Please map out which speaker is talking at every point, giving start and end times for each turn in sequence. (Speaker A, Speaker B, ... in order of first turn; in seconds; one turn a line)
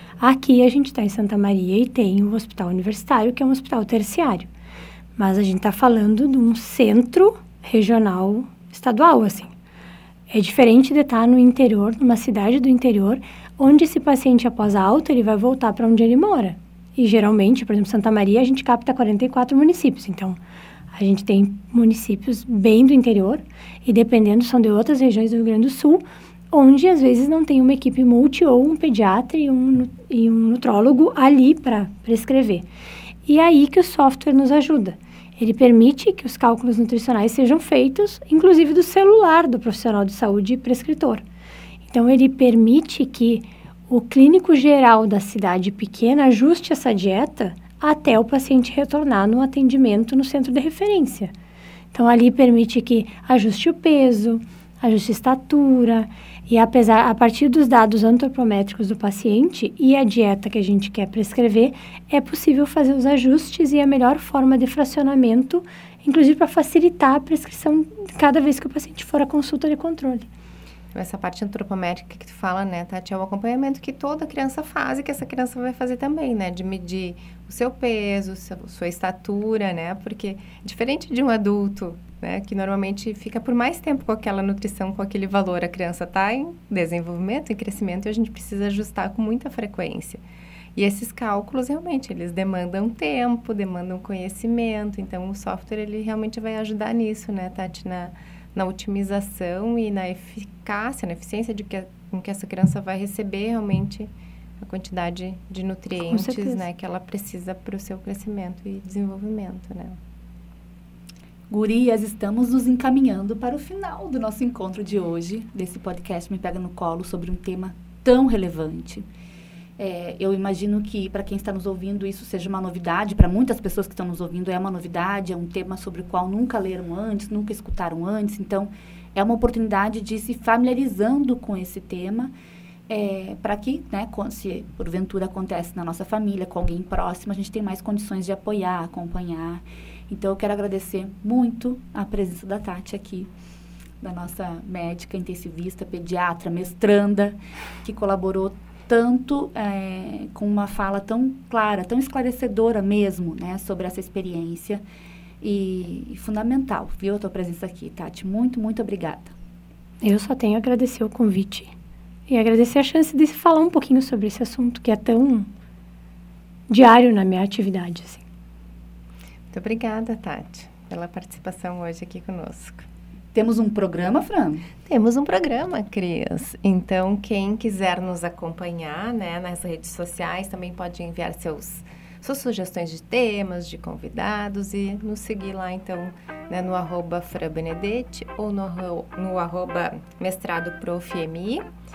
Speaker A: 0.2-4.5
Speaker A: 5.2-9.5
Speaker A: 10.3-20.4
Speaker A: 20.9-32.6
Speaker A: 33.3-41.2
Speaker A: 41.9-51.3
Speaker A: 51.9-70.3
Speaker B: 70.9-90.2
Speaker B: 90.8-104.1
Speaker B: 104.6-110.0
Speaker A: 106.0-106.6
Speaker C: 111.5-119.1
Speaker C: 119.8-132.3
Speaker C: 132.9-143.3
Speaker C: 144.0-154.8
Speaker C: 155.4-159.3
Speaker A: 160.0-161.7
Speaker A: 162.3-165.5
Speaker A: 166.7-168.2
Speaker B: 169.5-172.9
Speaker C: 173.3-174.7
Speaker B: 174.9-191.6